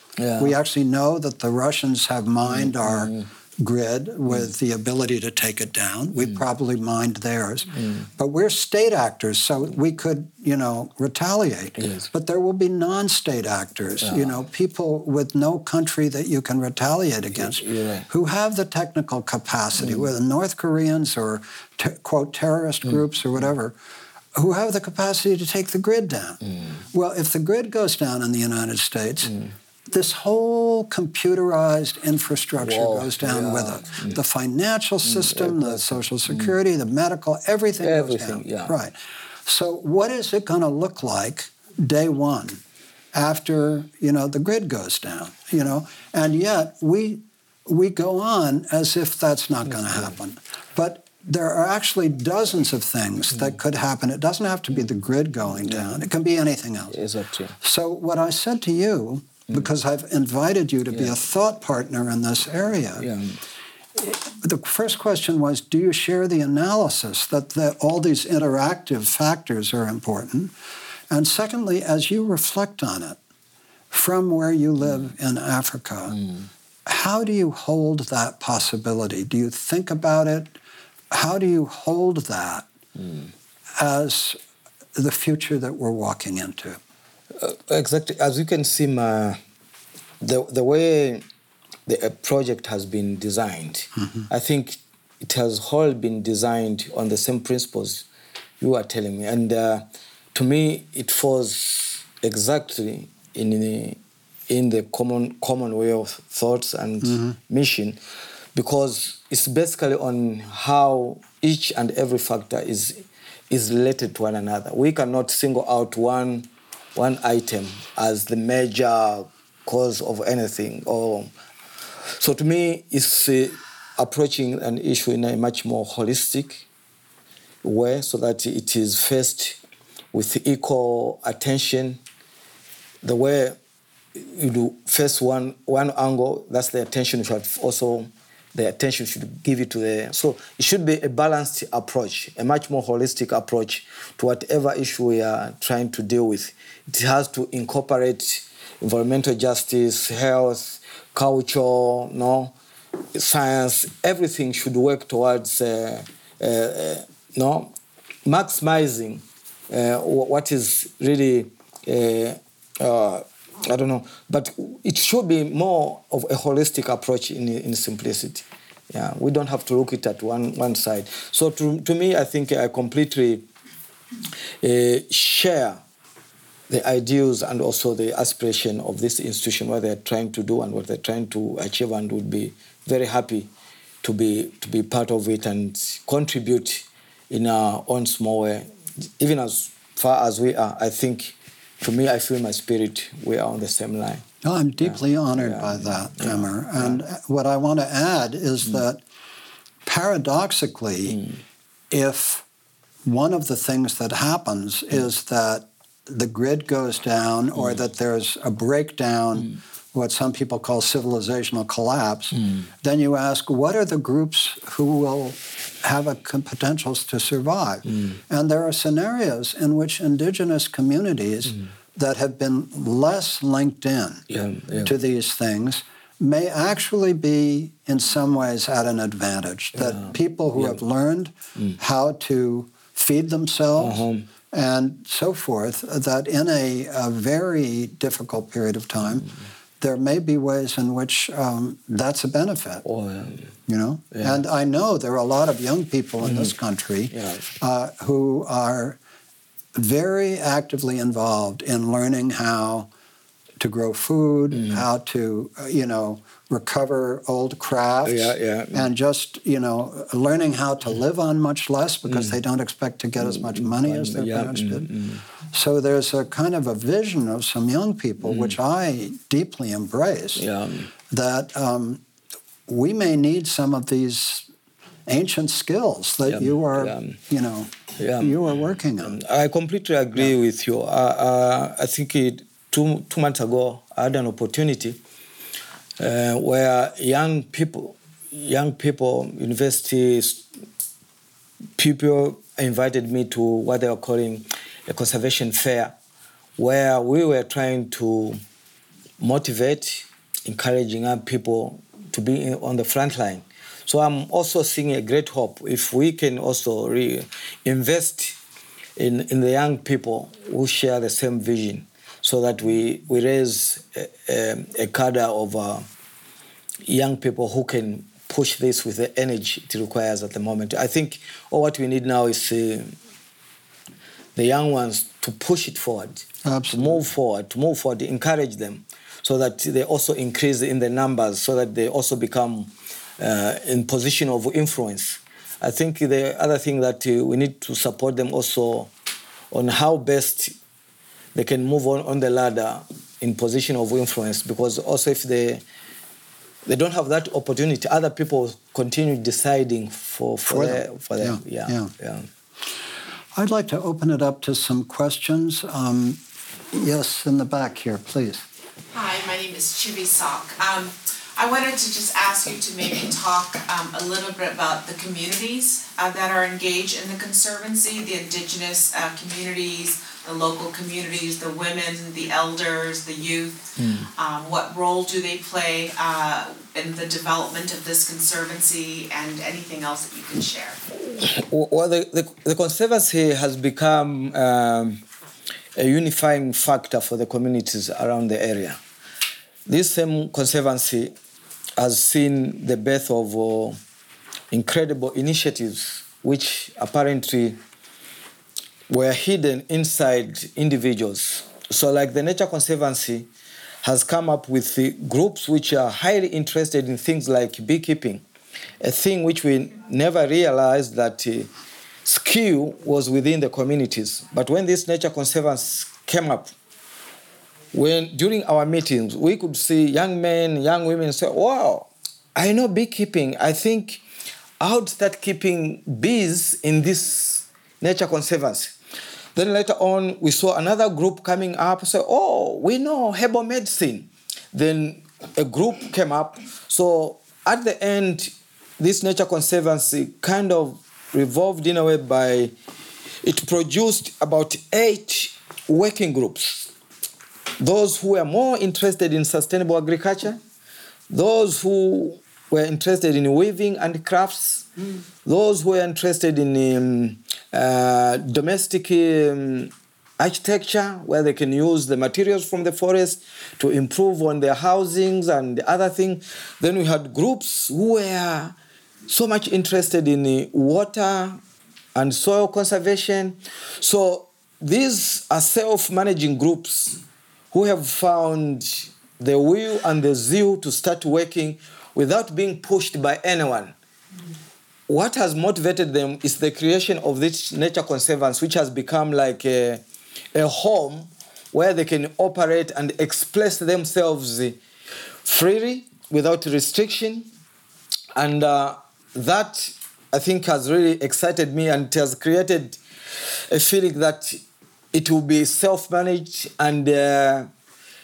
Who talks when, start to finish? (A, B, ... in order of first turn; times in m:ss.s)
0:00.2-0:00.6 A
0:00.4-0:23.8 B
0:02.4-0:03.3 A
0:11.8-0:12.1 A
0:14.0-0:14.4 A
0:17.3-0:18.1 A
0:24.4-0:26.4 B
0:26.9-0:29.4 B
0:29.3-0:29.5 A
0:29.9-0:42.6 B
0:32.6-0:34.2 A
0:35.0-0:36.5 A
0:37.8-0:38.8 A
0:43.1-0:57.0 B
0:49.7-0:50.1 A
0:55.6-0:56.0 A
0:56.9-0:57.6 A
0:57.6-1:03.1 B
1:00.9-1:01.2 A
1:03.0-1:03.4 A
1:04.0-1:10.5 B
1:11.1-1:13.2 B
1:13.9-1:16.2 B
1:16.9-1:20.6 B
1:21.1-1:22.7 B
1:23.0-1:23.3 A
1:23.8-1:24.4 B
1:25.0-1:26.8 B
1:27.4-1:29.4 A
1:30.2-1:31.2 A
1:31.9-1:38.1 A
1:38.6-1:48.0 A
1:47.0-1:47.4 B
1:48.6-2:01.3 A
2:02.2-2:06.7 A
2:07.6-2:09.6 A
2:10.1-2:12.0 A
2:13.0-2:13.6 A
2:14.2-2:32.5 A
2:33.1-2:37.7 A
2:38.2-2:53.5 A
2:54.6-2:55.8 A
2:56.7-3:03.5 A
3:04.0-3:08.7 A
3:09.2-3:14.2 A
3:14.4-3:19.0 B
3:14.8-3:17.0 A
3:19.8-3:21.2 B
3:21.9-3:22.4 B
3:23.0-3:44.2 B
3:27.6-3:27.8 A
3:37.9-3:38.2 A
3:44.3-3:44.9 A
3:44.8-4:02.8 B
3:49.8-3:50.8 A
3:53.8-3:54.2 A
4:02.8-4:03.5 A
4:03.7-4:09.0 B
4:04.1-4:04.4 A
4:06.2-4:06.5 A
4:07.1-4:07.5 A
4:09.8-4:12.9 B
4:13.6-4:24.9 B
4:14.5-4:14.8 A
4:18.0-4:18.9 A
4:22.1-4:22.4 A
4:23.2-4:25.2 A
4:25.5-4:30.5 B
4:28.2-4:28.6 A
4:30.4-4:30.9 A
4:31.1-4:32.0 B
4:32.7-4:34.5 B
4:35.1-4:39.2 B
4:36.3-4:37.2 A
4:38.0-4:38.5 A
4:39.0-4:45.0 A
4:46.0-4:50.4 A
4:51.8-4:55.9 A
4:56.6-4:58.4 A
4:59.2-5:08.4 A
5:09.0-5:15.9 A
5:16.8-5:22.9 A
5:24.4-5:38.9 A
5:26.4-5:27.0 B
5:39.5-5:40.6 A
5:41.3-5:45.6 A
5:46.7-5:52.3 A
5:50.5-5:51.9 B
5:53.3-5:58.4 B
5:58.9-6:13.6 C
6:13.8-6:14.1 A
6:14.2-6:20.8 C
6:21.2-6:25.0 A
6:25.8-6:28.8 A
6:29.7-6:31.1 A
6:31.8-6:33.8 A
6:34.5-6:37.6 A
6:38.9-6:43.3 A
6:43.8-6:48.2 A
6:48.8-6:51.5 A
6:52.0-6:56.5 A
6:57.7-7:04.0 A
7:04.6-7:08.8 A
7:09.4-7:22.5 A
7:23.2-7:26.7 A
7:27.6-7:30.4 A
7:31.1-7:34.7 A
7:35.2-7:48.6 A
7:49.1-7:51.4 A
7:52.0-7:57.0 A
7:57.5-8:03.7 A
8:04.9-8:09.8 A
8:10.4-8:14.6 A
8:15.2-8:17.3 A
8:18.2-8:22.8 A
8:23.5-8:24.4 A
8:24.9-8:27.5 A